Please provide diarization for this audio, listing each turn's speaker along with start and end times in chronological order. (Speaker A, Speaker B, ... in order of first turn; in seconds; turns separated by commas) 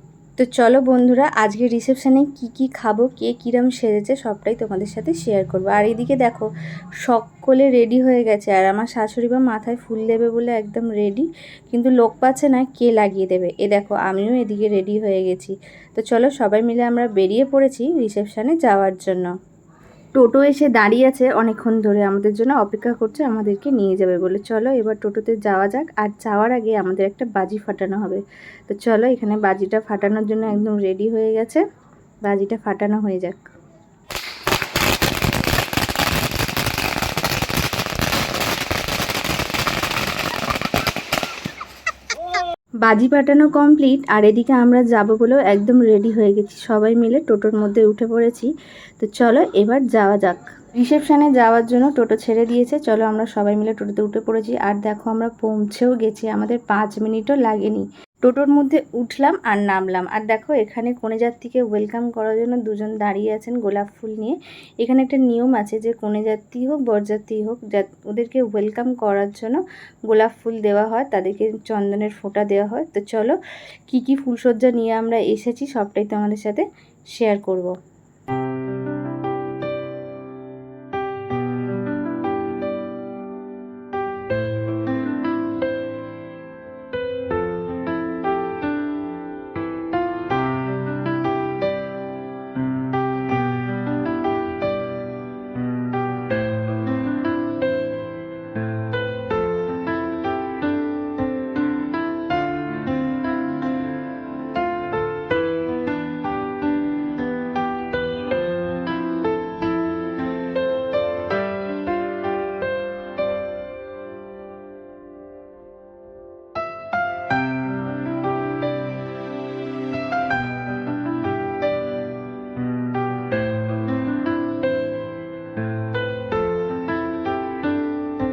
Speaker A: 0.4-6.5, Speaker A: 7.0-19.3, Speaker A: 20.2-31.6, Speaker A: 32.2-33.5, Speaker A: 42.8-77.7